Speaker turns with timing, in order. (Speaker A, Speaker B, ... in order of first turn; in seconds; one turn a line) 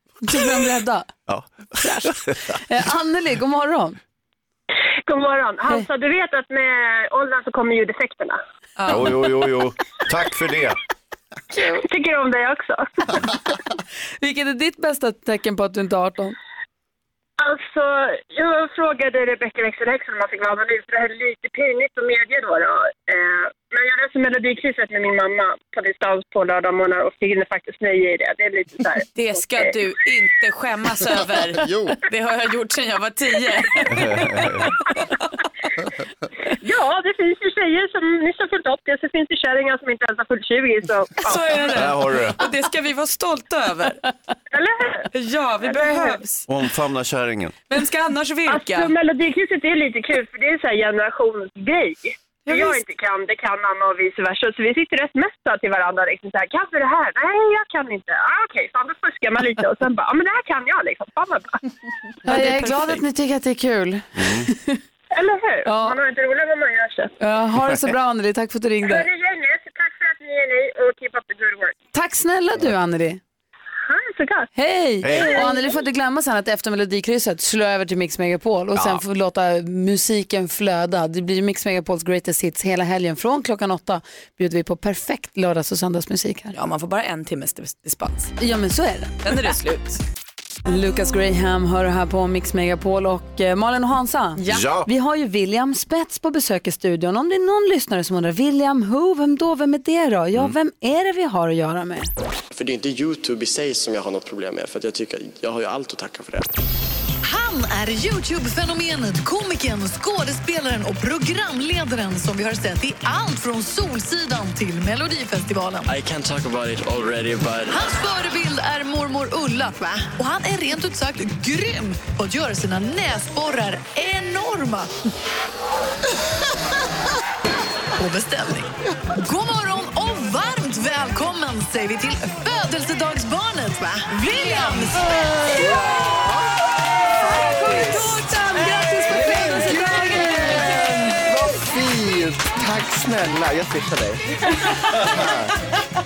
Speaker A: 0.2-1.1
Speaker B: 1.3-2.4
Speaker A: 1.8-4.0
Speaker C: 5.1-8.4
Speaker D: 8.8-9.1
Speaker B: 8.9-10.8
Speaker C: 11.8-12.9
Speaker A: 14.2-16.4
Speaker C: 17.4-29.1
Speaker D: 29.1-34.5
Speaker B: 33.9-34.7
Speaker C: 36.6-41.5
Speaker D: 41.2-44.0
Speaker B: 41.7-42.4
Speaker C: 44.5-45.1
Speaker D: 45.1-46.4
Speaker C: 45.6-46.1
Speaker B: 46.5-47.6
Speaker D: 47.7-48.9
Speaker C: 48.5-61.6
Speaker D: 52.5-52.8
Speaker A: 62.2-64.8
Speaker D: 62.3-62.9
Speaker B: 64.2-64.5
Speaker C: 65.1-67.1
Speaker A: 65.7-66.0
Speaker A: 67.2-69.0
Speaker C: 68.8-71.7
Speaker A: 71.9-73.2
Speaker C: 73.9-74.5
Speaker A: 74.5-86.5
Speaker B: 75.0-75.4
Speaker B: 78.7-79.0
Speaker D: 86.5-88.3
Speaker A: 88.4-89.3
Speaker D: 89.2-90.0
Speaker A: 90.7-102.1
Speaker D: 94.4-94.7
Speaker B: 94.5-94.9
Speaker E: 102.5-106.5
Speaker F: 107.2-115.9
Speaker E: 115.9-117.8
Speaker F: 117.7-124.9
Speaker F: 127.9-135.0
Speaker A: 135.5-135.8
Speaker A: 137.2-141.2
Speaker D: 140.0-140.7
Speaker G: 141.3-144.2
Speaker G: 145.1-145.5